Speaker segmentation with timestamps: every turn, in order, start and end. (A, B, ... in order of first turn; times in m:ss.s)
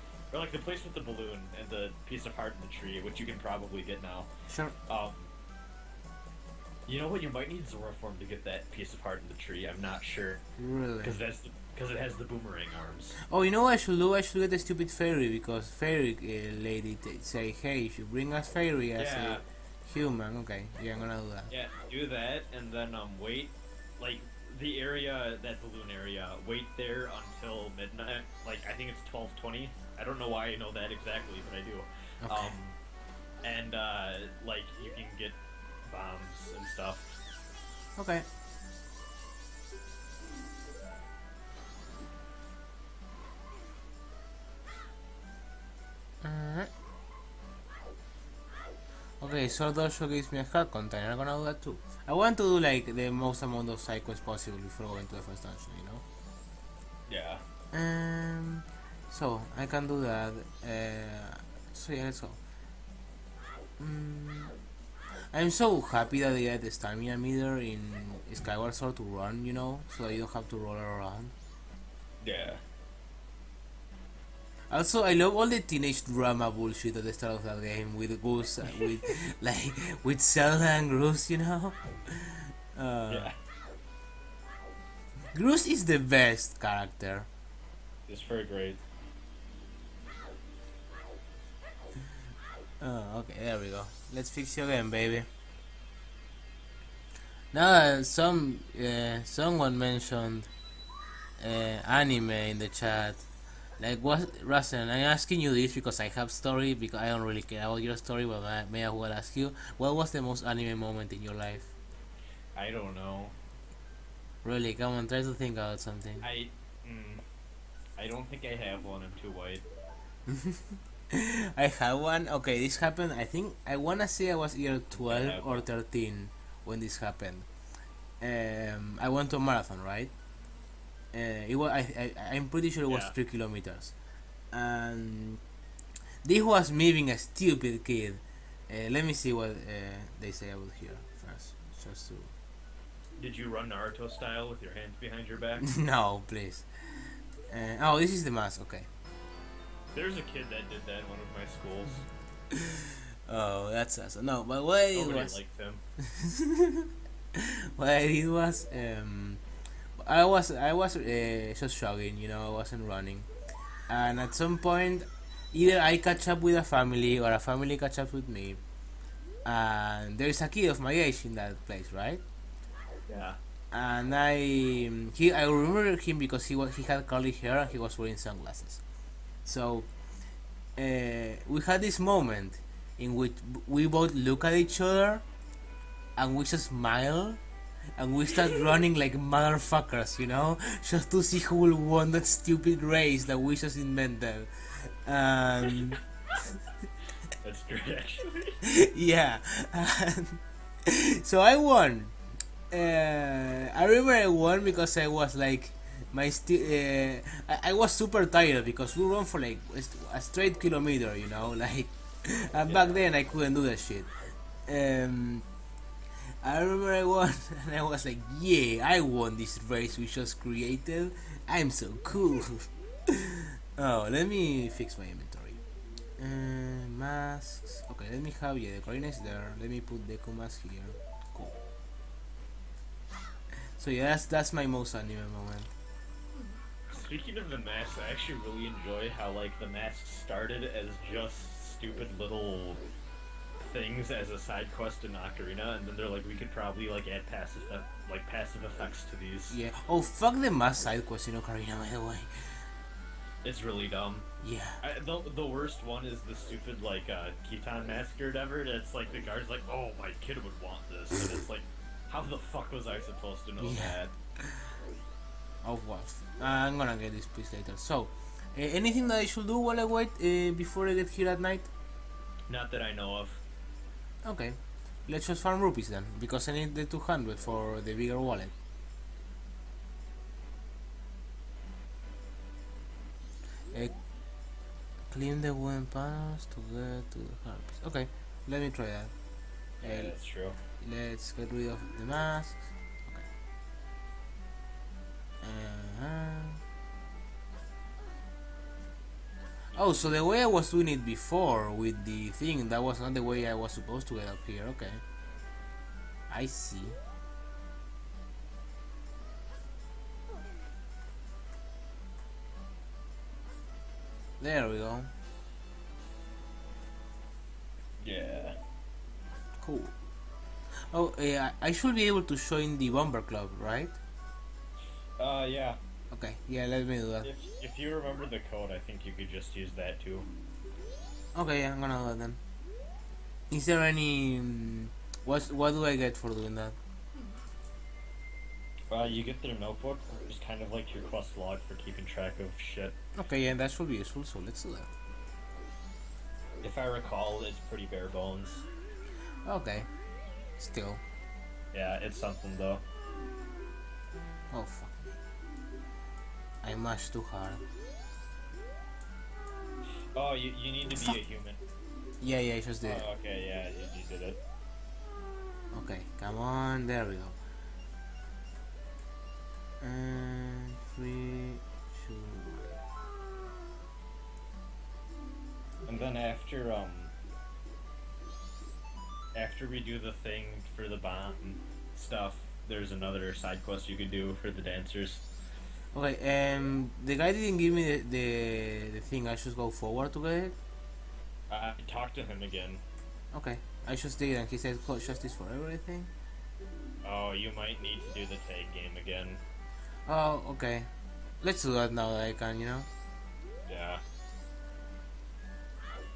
0:00.3-0:04.3 A
0:04.5-0:04.8 B
0:04.9-0:05.3 A
0:06.9-0:10.4 A
0:10.6-0:11.2 B
0:11.0-0:13.2 A
0:13.2-0:21.5 B
0:19.0-0:19.4 A
0:21.5-0:32.8 A
0:32.2-0:32.5 B
0:33.4-0:37.1 A
0:38.0-0:38.3 B
0:46.2-0:46.7 B
0:49.2-0:56.0 B
0:57.1-0:57.4 A
0:57.7-1:02.4 B
1:03.8-1:04.5 B
1:05.3-1:11.3 B
1:12.2-1:12.6 A
1:14.7-1:23.3 B
1:18.8-1:19.1 A
1:23.1-1:23.4 A
1:25.3-1:27.3 B
1:28.1-1:28.8 A
1:32.8-1:35.3 B
1:37.5-1:40.5 B
1:41.4-1:43.2 B
1:43.8-1:51.7 B
1:52.6-1:53.4 A
1:54.4-1:56.2 B
1:56.2-1:57.2 A
1:58.0-1:59.6 A
2:00.3-2:07.5 B
2:04.9-2:05.6 A
2:08.2-2:10.1 B
2:11.1-2:13.9 B
2:12.9-2:13.1 A
2:14.5-2:15.4 B
2:16.2-2:22.3 B
2:23.2-2:25.6 A
2:25.6-2:26.7 B
2:27.5-2:28.9 B
2:29.9-2:32.1 A
2:32.5-2:35.4 B
2:34.9-2:35.8 A
2:36.0-2:39.4 B
2:40.0-2:43.3 B
2:43.9-2:48.6 B
2:49.4-2:52.2 B
2:53.1-2:53.4 A
2:53.7-2:58.8 B
2:59.4-2:59.9 B
3:00.8-3:05.2 B
3:06.2-3:07.4 B
3:08.0-3:16.0 B
3:15.6-3:16.0 A
3:17.4-3:18.6 A
3:18.6-3:22.2 B
3:22.7-3:34.1 B
3:32.7-3:33.1 A
3:34.7-3:35.5 B
3:36.2-3:45.6 B
3:46.2-3:51.6 B
3:53.6-3:55.7 B
3:56.9-4:02.8 A
4:03.6-4:09.6 A
4:09.5-4:12.7 B
4:13.4-4:14.3 A
4:14.4-4:14.8 B
4:14.8-4:24.1 A
4:23.6-4:24.6 B
4:25.6-4:31.7 B
4:32.5-4:33.4 A
4:34.2-4:38.5 B
4:45.1-4:49.1 B
4:49.8-4:50.6 A
4:49.8-4:50.1 B
4:50.8-4:53.3 B
4:55.4-4:56.6 B
4:59.7-5:05.0 B
5:06.3-5:07.0 B
5:14.4-5:15.1 B
5:18.0-5:18.6 A
5:19.6-5:19.9 B
5:20.9-5:24.0 B
5:25.2-5:25.8 A
5:26.1-5:27.3 B
5:27.2-5:30.3 A
5:31.4-5:32.4 B
5:33.5-5:36.8 B
5:38.9-5:43.0 A
5:43.2-5:44.9 B
5:46.6-5:48.7 A
5:49.4-5:49.9 B
5:50.6-5:51.0 B
5:51.7-5:52.8 A
5:54.5-5:55.1 B
5:56.6-5:57.7 B
6:00.1-6:01.6 A
6:02.2-6:03.1 B
6:02.8-6:04.4 A
6:05.7-6:07.4 B
6:09.8-6:12.8 B
6:15.8-6:17.1 A
6:19.3-6:25.2 A
6:25.9-6:30.6 B
6:31.5-6:32.8 A
6:33.3-6:36.1 B
6:37.0-6:39.4 A
6:40.1-6:40.9 B
6:41.4-6:42.9 B
6:43.7-6:44.0 A